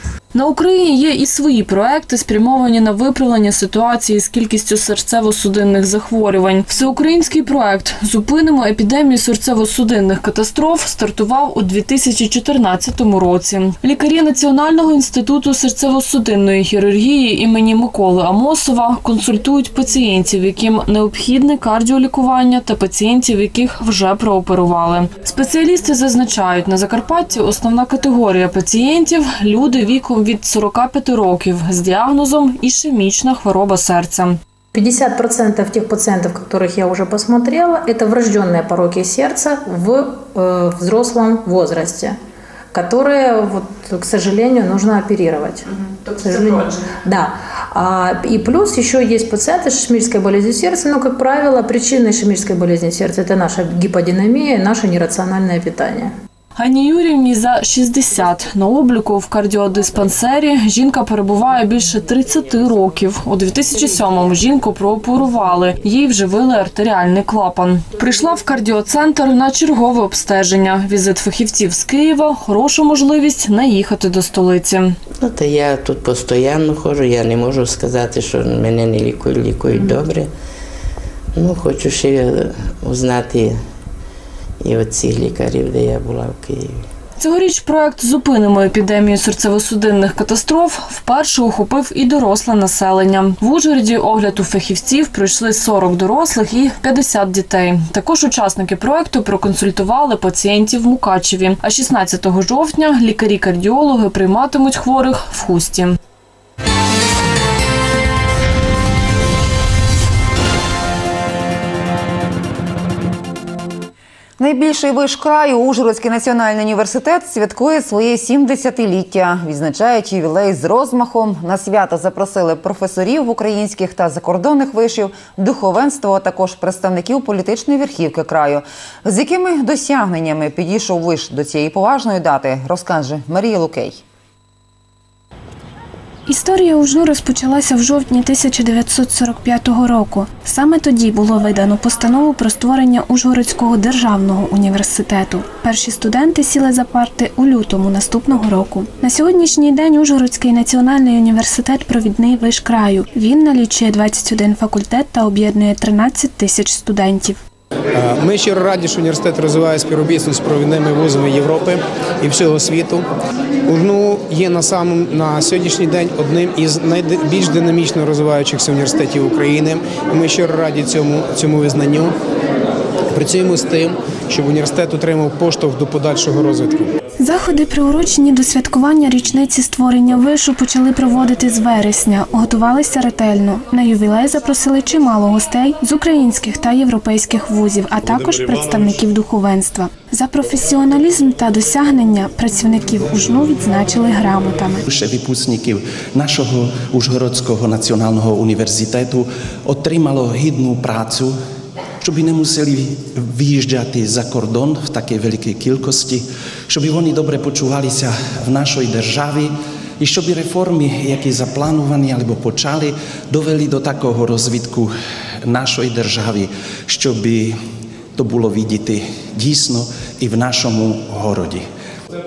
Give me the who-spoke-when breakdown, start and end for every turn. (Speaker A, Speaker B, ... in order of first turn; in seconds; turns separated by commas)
Speaker A: 0.3-34.4, Speaker B: 34.7-42.2, Speaker B: 42.7-56.1, Speaker A: 56.5-75.0, Speaker C: 62.0-62.6, Speaker C: 63.6-64.4, Speaker C: 65.3-65.6, Speaker C: 75.2-80.3, Speaker C: 81.3-83.6, Speaker C: 84.6-86.8, Speaker A: 87.2-106.0, Speaker D: 114.4-134.0, Speaker E: 136.3-157.4, Speaker F: 157.9-163.1, Speaker F: 163.7-172.1, Speaker F: 173.1-176.9, Speaker E: 177.2-194.8, Speaker G: 194.9-201.3, Speaker G: 202.0-214.9, Speaker G: 215.4-217.5, Speaker G: 218.2-221.6